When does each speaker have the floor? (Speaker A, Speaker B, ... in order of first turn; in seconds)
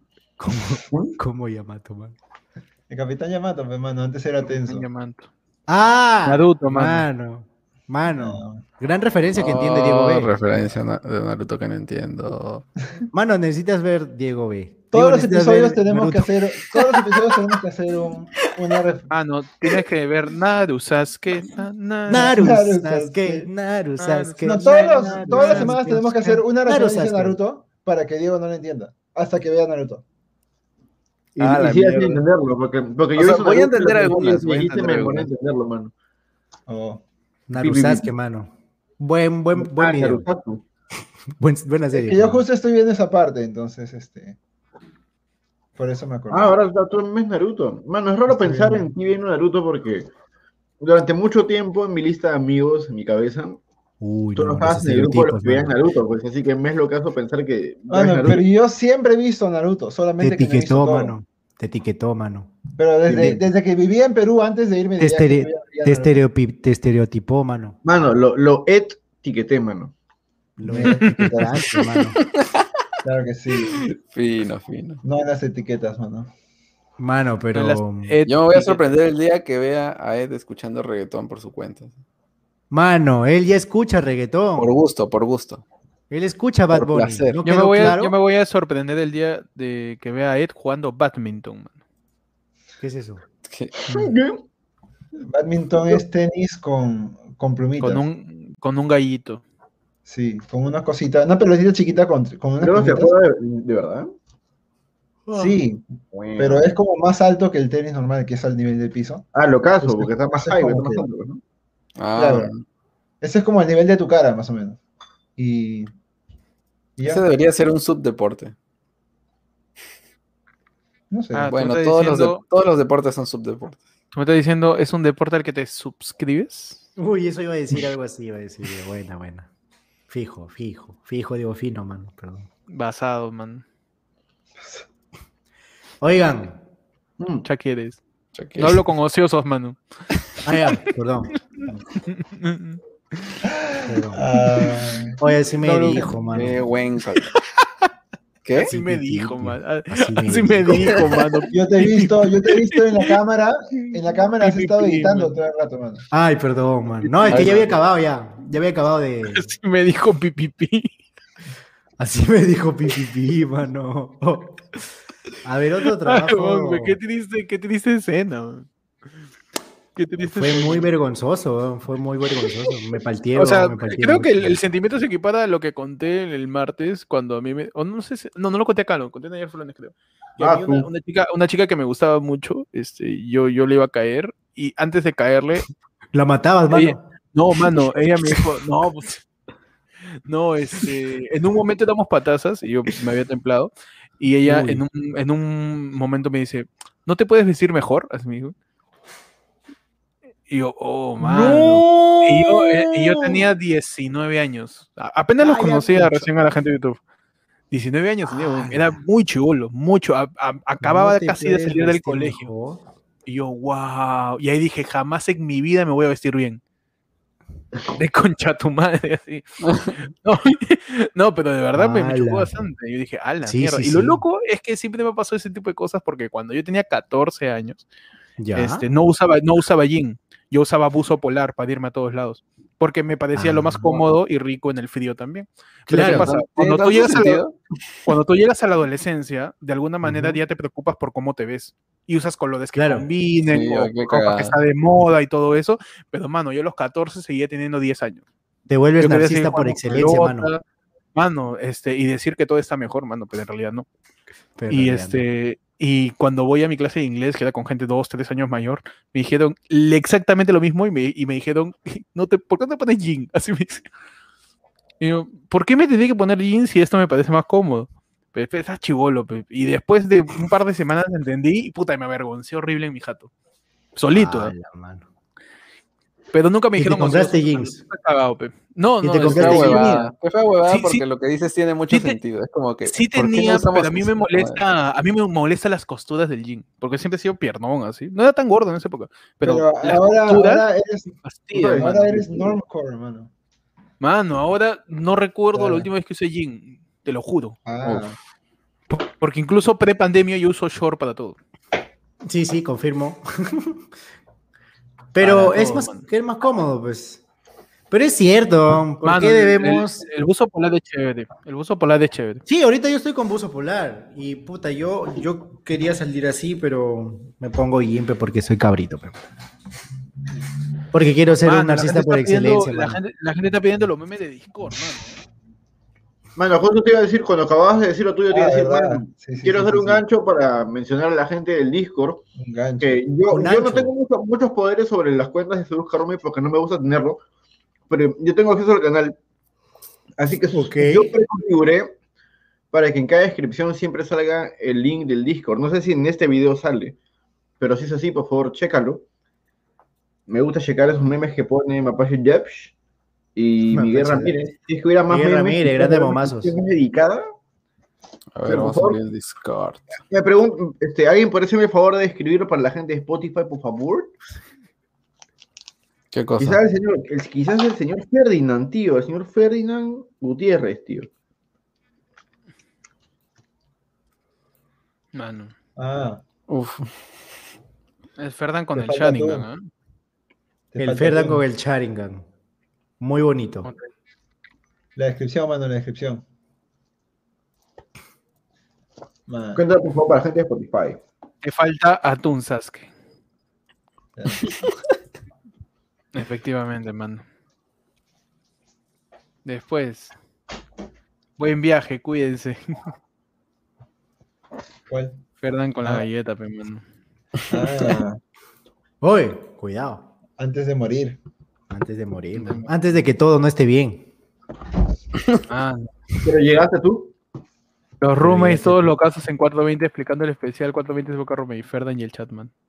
Speaker A: 0.4-2.2, 5.7-10.3, 13.1-16.2, 22.1-27.4, 31.4-32.2, 37.5-40.2, 41.4-42.4, 54.0-55.8, 60.2-62.5, 65.0-67.8, 70.6-72.2, 77.0-78.2, 82.7-84.7, 86.1-88.2, 92.8-93.2, 105.3-105.6, 127.0-129.5, 130.1-132.5, 136.0-136.6, 140.5-141.3, 143.9-144.2, 145.2-146.6, 148.7-151.1, 156.1-159.5, 162.0-164.6, 165.4-167.0, 170.3-174.6, 186.1-187.0, 194.4-194.8, 201.2-203.4, 205.4-206.3, 208.6-208.9, 210.8-212.8, 221.7-222.5, 223.4-224.2, 228.4-228.8, 233.3-234.0, 235.9-236.3, 240.0-240.4, 242.8-243.1, 248.7-250.5, 254.6-255.2, 274.1-275.1, 276.8-277.8, 279.0-280.0, 302.3-303.8, 305.1-307.2, 307.9-310.0, 312.5-319.2, 320.9-323.0, 333.3-333.9, 340.5-341.1, 353.7-354.4, 355.1-356.5, 380.8-382.2, 383.0-383.7, 409.0-410.0, 411.7-414.1, 418.2-418.9
Speaker B: 0.9-1.2, 31.4-35.9, 37.6-38.1, 39.5-40.6, 46.3-50.1, 50.8-53.6, 54.4-58.4, 63.1-63.4, 67.8-69.9, 93.9-94.4, 102.6-104.1, 106.1-106.7, 109.3-111.4, 137.2-137.4, 180.4-180.9, 291.5-292.5, 326.4-332.3, 332.8-337.2, 337.9-339.2, 340.2-341.9, 342.7-347.0, 347.6-349.1, 350.3-352.7, 353.4-357.2, 358.4-359.0, 360.1-364.1, 366.4-371.1, 389.6-391.0, 416.2-417.1
Speaker C: 2.9-4.9, 8.1-8.6, 14.9-19.1, 22.1-23.5, 24.4-30.0, 36.7-37.0, 41.9-44.4, 45.8-46.6, 48.3-48.9, 57.9-61.1, 62.8-66.2, 70.6-71.5, 73.0-73.9, 75.0-76.3, 95.3-98.0, 100.1-103.1, 105.3-105.8, 106.4-109.3, 109.8-111.0, 112.2-112.5, 113.2-114.8, 115.4-115.9, 117.0-117.2, 121.1-121.5, 134.6-134.8, 143.6-145.2, 151.5-156.1, 289.4-291.2, 291.8-293.3, 295.6-295.9, 297.7-298.1, 328.3-330.0, 332.4-333.0, 375.8-376.2, 378.7-379.4, 380.7-381.4, 385.0-386.2, 389.3-389.6, 394.2-394.5, 404.9-405.2, 407.5-408.2, 410.4-411.2
Speaker D: 4.5-5.3, 6.3-7.1, 19.1-22.4, 24.0-25.8, 70.9-71.8, 77.5-78.9, 87.4-91.8, 97.8-99.4, 121.3-122.4, 124.1-126.9, 132.7-133.6, 137.4-138.0, 138.6-139.8, 142.2-143.3, 145.6-146.1, 148.6-153.1, 154.4-155.3, 157.1-157.6, 159.3-160.9, 165.8-168.7, 170.0-170.9, 173.4-185.7, 186.7-189.2, 190.3-198.6, 200.5-207.0, 207.7-212.5, 213.3-216.6, 217.9-219.4, 220.0-227.8, 228.6-237.4, 238.1-248.2, 249.0-250.6, 251.2-253.9, 254.7-263.9, 265.0-273.3, 273.9-274.6, 276.3-280.1, 280.7-281.0, 281.9-282.2, 282.9-290.7, 291.2-292.3, 294.0-297.6, 298.9-301.4, 305.2-306.1, 309.0-312.4, 321.4-325.2, 375.1-375.5, 378.2-379.7, 383.6-383.9, 391.4-392.9, 396.1-397.2, 399.4-400.1, 401.4-402.9, 405.4-406.8, 415.5-415.9, 418.0-422.5
Speaker E: 9.4-12.7, 33.2-35.3, 72.4-72.6, 73.9-75.0, 78.3-82.0, 84.6-85.6, 86.7-87.4, 93.5-93.7, 112.0-112.6, 117.1-118.5, 121.5-123.8, 138.3-138.9, 146.3-147.3, 148.4-148.7, 157.3-157.7, 235.9-237.6, 243.5-244.6, 279.2-284.6, 297.8-298.1, 358.4-359.9, 366.1-366.6, 376.5-376.9